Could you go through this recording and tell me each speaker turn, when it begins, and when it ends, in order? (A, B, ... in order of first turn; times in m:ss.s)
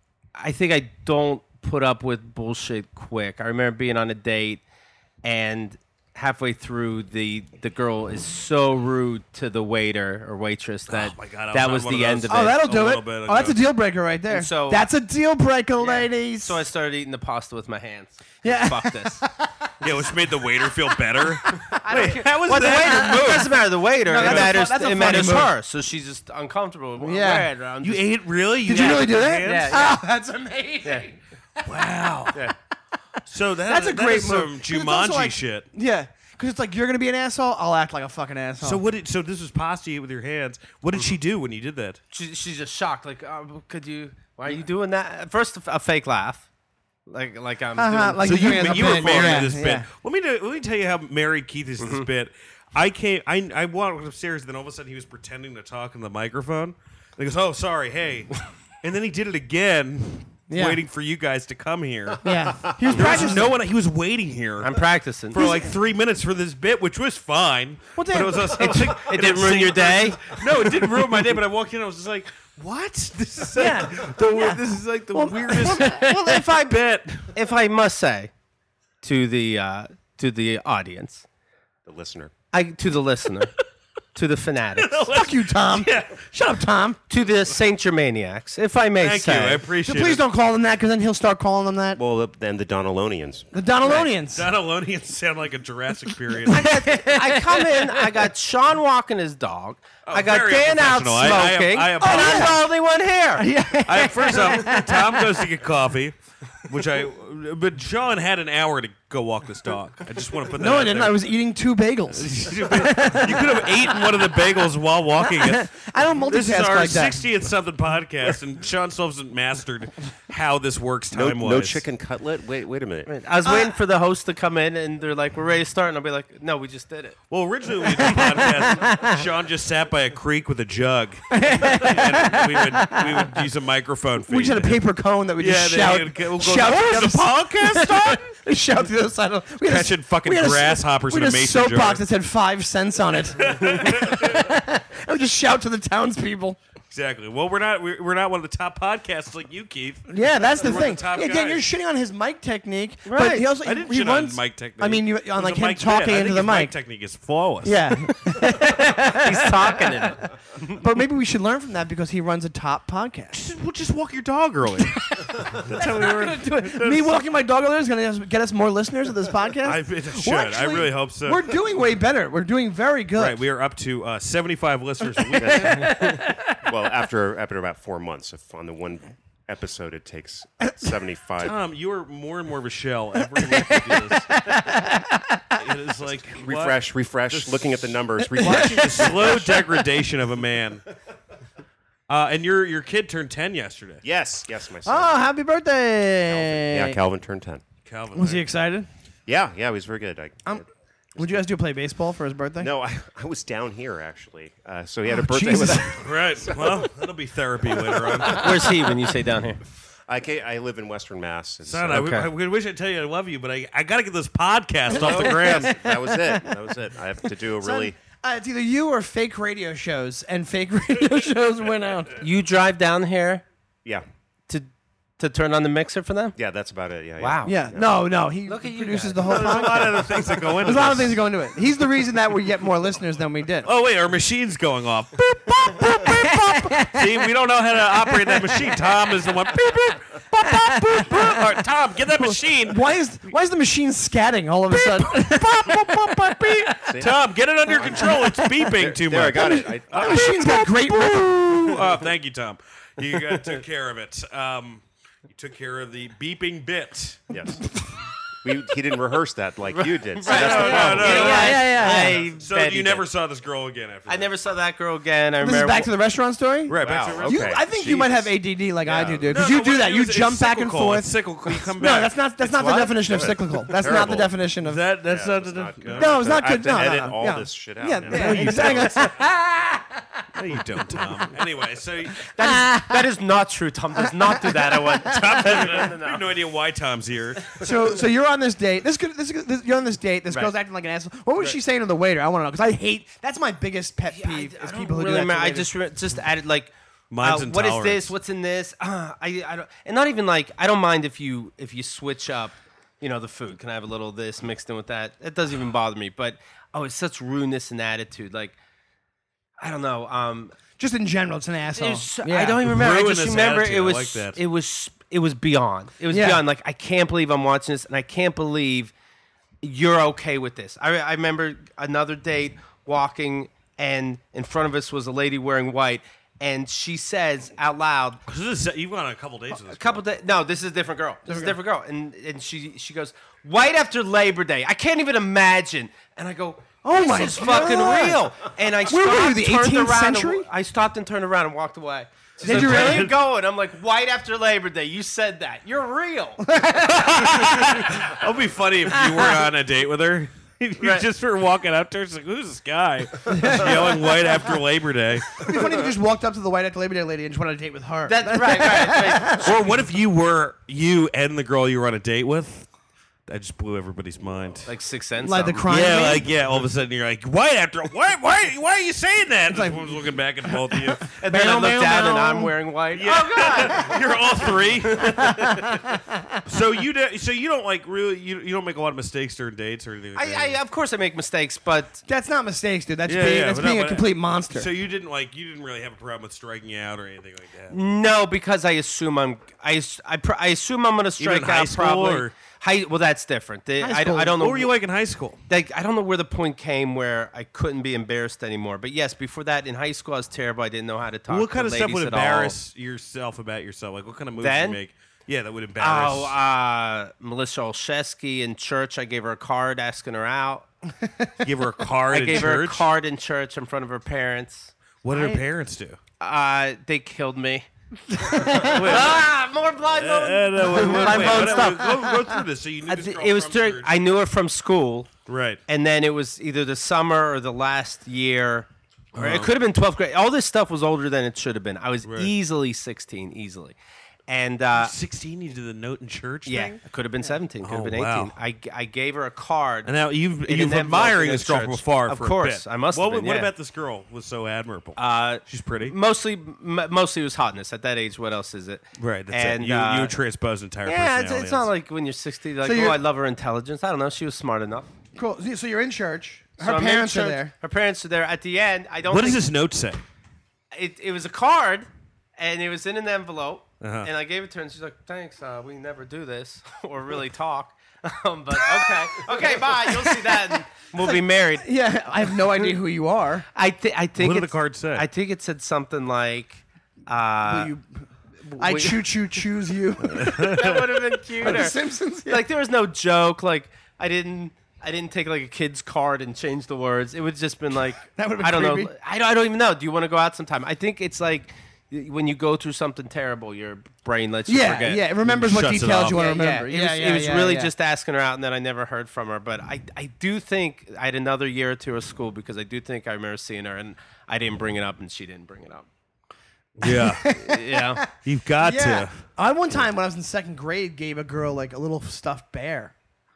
0:00.4-0:04.6 A
0:05.2-0:12.5 A
0:10.9-0:13.6 B
0:12.3-0:16.6 C
0:14.3-0:14.8 A
0:15.8-0:19.2 A
0:18.4-0:19.9 C
0:19.8-0:23.6 B
0:20.8-0:21.7 C
0:21.6-0:28.1 A
0:24.0-0:25.5 C
0:24.2-0:24.5 B
0:27.0-0:27.5 C
0:27.8-0:29.9 B
0:28.6-0:30.0 A
0:28.6-0:31.1 C
0:31.6-0:32.5 B
0:33.2-0:35.7 B
0:33.7-0:38.8 C
0:38.6-0:42.0 B
0:42.1-0:46.4 A
0:47.1-0:49.5 A
0:47.8-0:49.9 C
0:48.2-1:17.3 B
0:51.8-0:52.1 A
1:00.5-1:00.8 C
1:02.2-1:03.5 C
1:02.9-1:03.4 A
1:04.6-1:05.5 A
1:05.3-1:05.7 C
1:08.0-1:08.6 C
1:08.5-1:10.4 A
1:13.6-1:14.6 C
1:15.1-1:16.1 C
1:15.6-1:16.6 A
1:17.3-1:18.3 A
1:19.0-1:21.2 A
1:21.8-1:22.3 D
1:22.5-1:23.5 A
1:24.1-1:25.1 A
1:24.8-1:26.2 B
1:25.1-1:27.0 C
1:27.1-1:29.6 A
1:29.0-1:30.2 B
1:29.8-1:32.0 C
1:32.0-1:33.5 D
1:33.5-1:34.4 C
1:33.8-1:36.9 B
1:36.5-1:43.5 A
1:36.5-1:37.8 C
1:40.0-1:42.6 B
1:42.0-1:42.6 C
1:43.4-1:45.2 C
1:43.8-1:51.3 B
1:44.2-1:44.8 A
1:50.6-1:54.2 C
1:52.1-1:55.7 B
1:55.2-1:57.2 C
1:56.3-2:01.8 B
2:01.1-2:03.1 D
2:03.0-2:07.2 A
2:03.4-2:03.7 C
2:07.3-2:14.8 B
2:08.0-2:08.5 A
2:08.1-2:09.1 C
2:11.3-2:13.3 C
2:14.3-2:26.6 C
2:15.4-2:18.3 B
2:19.6-2:22.0 B
2:23.4-2:24.5 B
2:26.9-2:31.6 B
2:30.1-2:36.7 C
2:33.0-2:33.5 A
2:33.6-2:38.2 B
2:37.6-2:39.8 C
2:39.0-2:40.8 A
2:40.8-2:43.4 C
2:43.3-2:47.1 B
2:45.0-2:53.4 C
2:49.6-2:51.5 B
2:53.2-2:56.0 B
2:55.4-3:01.6 D
2:55.5-2:56.6 C
3:01.4-3:04.4 B
3:03.4-3:05.6 C
3:05.5-3:10.8 B
3:06.4-3:09.5 D
3:08.4-3:09.7 C
3:12.1-3:14.0 B
3:14.0-3:15.2 D
3:14.8-3:17.0 C
3:16.3-3:17.6 D
3:17.8-3:18.4 B
3:18.1-3:18.9 C
3:19.2-3:20.6 D
3:21.2-3:21.5 D
3:21.2-3:22.7 C
3:22.6-3:26.9 D
3:25.1-3:26.0 C
3:26.0-3:28.8 B
3:28.2-3:29.6 A
3:30.1-3:32.1 D
3:31.6-3:35.8 B
3:31.9-3:32.3 A
3:34.9-3:38.0 D
3:35.0-3:36.4 C
3:37.6-3:42.2 C
3:42.2-3:43.4 A
3:44.5-3:46.4 A
3:46.4-3:48.0 D
3:47.2-3:47.5 A
3:47.4-3:53.7 C
3:48.4-3:49.8 A
3:49.2-3:51.2 B
3:53.6-4:02.9 B
3:56.0-3:57.0 C
3:58.1-3:58.6 C
4:00.5-4:01.4 C
4:02.2-4:06.9 C
4:04.7-4:17.2 B
4:06.9-4:10.4 D
4:08.1-4:08.5 C
4:09.3-4:11.8 C
4:17.3-4:17.6 D
4:17.6-4:18.0 C
4:18.4-4:21.7 D
4:19.7-4:23.0 A
4:20.2-4:24.3 B
4:20.3-4:22.2 C
4:24.1-4:25.9 A
4:25.4-4:34.8 C
4:26.7-4:27.7 B
4:26.7-4:28.3 D
4:28.8-4:29.3 D
4:29.2-4:32.1 B
4:32.4-4:33.1 A
4:33.0-4:34.3 D
4:34.6-4:36.2 B
4:35.1-4:38.9 D
4:36.0-4:39.8 C
4:38.1-4:39.2 B
4:40.3-4:42.3 B
4:42.3-4:46.2 A
4:42.4-4:43.0 C
4:44.2-4:45.4 C
4:45.1-4:47.6 B
4:47.6-4:55.7 C
4:54.1-5:08.6 A
4:57.1-4:58.1 B
5:09.6-5:10.5 A
5:10.8-5:12.6 C
5:11.8-5:18.9 A
5:12.6-5:14.4 B
5:16.1-5:16.4 C
5:19.6-5:28.2 A
5:28.3-5:30.0 B
5:29.5-5:46.5 A
5:31.3-5:31.5 C
5:36.8-5:38.3 C
5:38.8-5:40.4 C
5:42.4-5:43.1 C
5:42.4-5:43.1 B
5:46.4-5:47.9 C
5:46.8-5:55.5 B
5:49.0-5:49.3 C
5:50.8-5:51.0 A
5:53.2-5:53.9 C
5:55.4-5:59.5 C
5:58.1-5:59.6 A
5:59.4-6:02.7 B
6:03.3-6:04.7 B
6:04.6-6:05.7 A
6:05.2-6:06.3 C
6:05.7-6:11.1 B
6:09.5-6:12.5 C
6:11.2-6:15.3 A
6:12.9-6:15.8 B
6:15.2-6:16.4 C
6:16.4-6:20.6 B
6:20.1-6:22.0 A
6:22.1-6:24.7 C
6:23.1-6:27.9 B
6:27.7-6:34.7 A
6:31.2-6:32.3 B
6:33.8-6:34.4 C
6:34.3-6:35.4 B
6:35.5-6:42.5 A
6:41.3-6:46.3 B
6:44.4-6:44.8 A
6:45.8-6:50.7 A
6:51.0-6:51.3 C
6:51.4-6:52.9 B
6:52.1-6:54.7 A
6:55.0-6:56.0 B
6:55.1-6:55.4 C
6:56.2-6:57.7 A
6:58.1-6:58.9 C
6:58.2-7:02.1 A
6:58.6-6:59.3 B
6:59.9-7:03.9 B
7:00.7-7:02.3 C
7:02.8-7:05.1 A
7:05.3-7:05.6 B
7:05.7-7:13.8 A
7:09.1-7:09.5 B
7:12.0-7:12.3 B
7:14.3-7:14.9 A
7:14.7-7:16.8 B
7:16.4-7:19.9 A
7:17.6-7:18.3 B
7:19.8-7:26.0 B
7:20.4-7:23.5 A
7:25.0-7:30.1 A
7:29.0-7:31.7 B
7:30.8-7:34.9 A
7:32.6-7:33.0 C
7:35.1-7:37.5 C
7:36.6-7:39.4 A
7:39.1-7:40.0 B
7:40.7-7:51.6 A
7:43.8-7:44.1 B
7:49.7-7:53.4 C
7:53.5-7:57.7 A
7:54.2-7:55.1 B
7:57.4-7:57.8 C
7:58.5-7:59.1 A
7:58.6-8:00.6 C
8:00.0-8:01.5 B
8:00.1-8:15.0 A
8:01.4-8:02.4 C
8:08.1-8:08.9 C
8:14.5-8:17.7 C
8:15.2-8:16.2 B
8:16.1-8:25.9 A
8:26.8-8:27.3 B
8:26.8-8:28.1 C
8:27.3-8:28.0 A
8:28.2-8:29.2 B
8:28.6-8:32.9 C